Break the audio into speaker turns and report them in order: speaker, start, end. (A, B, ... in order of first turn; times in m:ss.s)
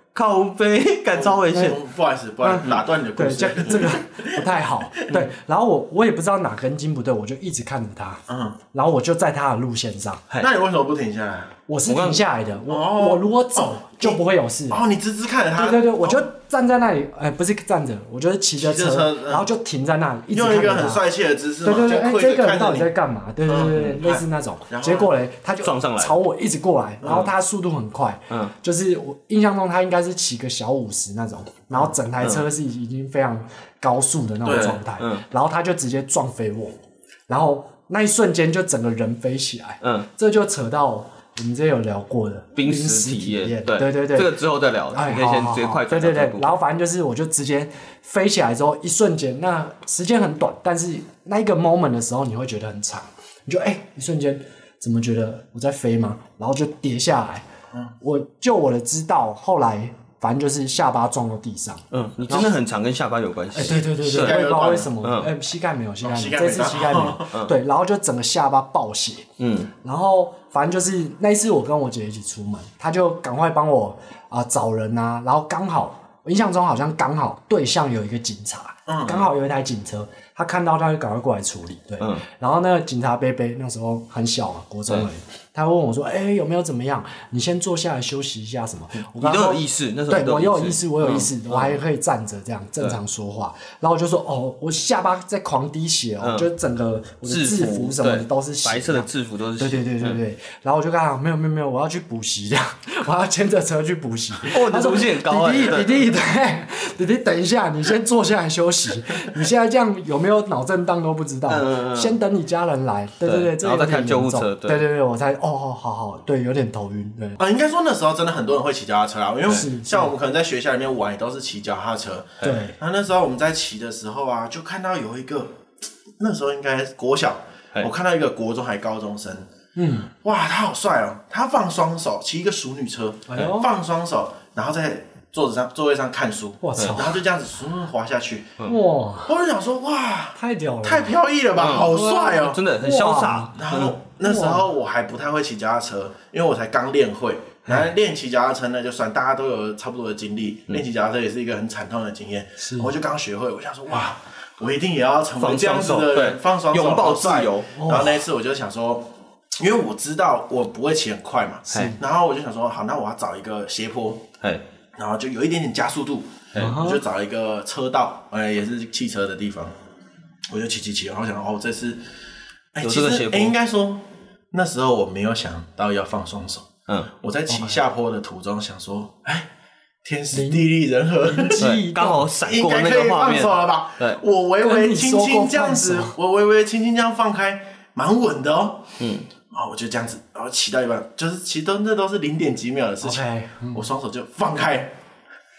0:00.1-0:01.8 A
0:01.1-0:04.5 B
0:02.4-0:08.2 C
0:05.0-0:05.3 B
0:08.3-0:08.6 B
0:08.7-0:10.2 C
0:10.4-0:11.5 B
0:11.7-0:14.8 C
0:11.8-0:12.2 A
0:12.7-0:16.3 B
0:15.5-0:21.0 C
0:18.6-0:19.5 B
0:20.3-0:22.9 B
0:21.6-0:36.8 C
0:23.4-0:25.1 B
0:25.6-0:26.2 A
0:27.0-0:27.3 B
0:27.0-0:27.3 A
0:32.2-0:32.4 A
0:34.4-0:34.8 B
0:34.5-0:35.2 A
0:37.3-0:44.4 C
0:39.8-0:40.1 A
0:42.6-0:46.6 A
0:44.9-0:57.4 C
0:58.0-1:02.5 C
1:01.9-1:04.4 A
1:03.5-1:09.3 C
1:03.7-1:04.9 B
1:05.0-1:05.3 A
1:06.0-1:07.3 B
1:09.4-1:09.7 A
1:09.8-1:39.1 C
1:18.9-1:19.3 B
1:29.0-1:31.8 A
1:36.2-1:36.5 A
1:37.2-1:40.2 A
1:39.6-1:57.4 C
1:44.4-1:46.1 A
1:51.5-1:52.2 A
1:53.2-1:54.8 A
1:57.4-2:05.5 B
1:59.5-2:00.1 C
2:02.4-2:02.8 C
2:06.2-2:09.5 B
2:09.8-2:10.1 C
2:10.2-2:18.7 B
2:13.3-2:13.7 C
2:16.6-2:17.2 C
2:18.6-2:19.3 C
2:19.2-2:22.6 B
2:20.4-2:23.6 C
2:21.6-2:24.0 A
2:23.6-2:44.2 B
2:24.2-2:24.6 C
2:32.6-2:32.9 C
2:35.4-2:37.8 A
2:37.7-2:38.2 C
2:41.7-2:42.0 C
2:45.0-2:49.7 B
2:46.6-2:47.0 C
2:50.5-2:52.0 B
2:52.7-2:59.5 B
2:52.8-2:53.5 A
2:57.5-2:57.8 C
3:00.0-3:01.6 B
3:00.3-3:02.2 C
3:01.6-3:04.2 A
3:02.4-3:08.9 B
3:04.6-3:06.1 C
3:09.0-3:09.2 A
3:09.5-3:14.9 B
3:13.0-3:13.9 C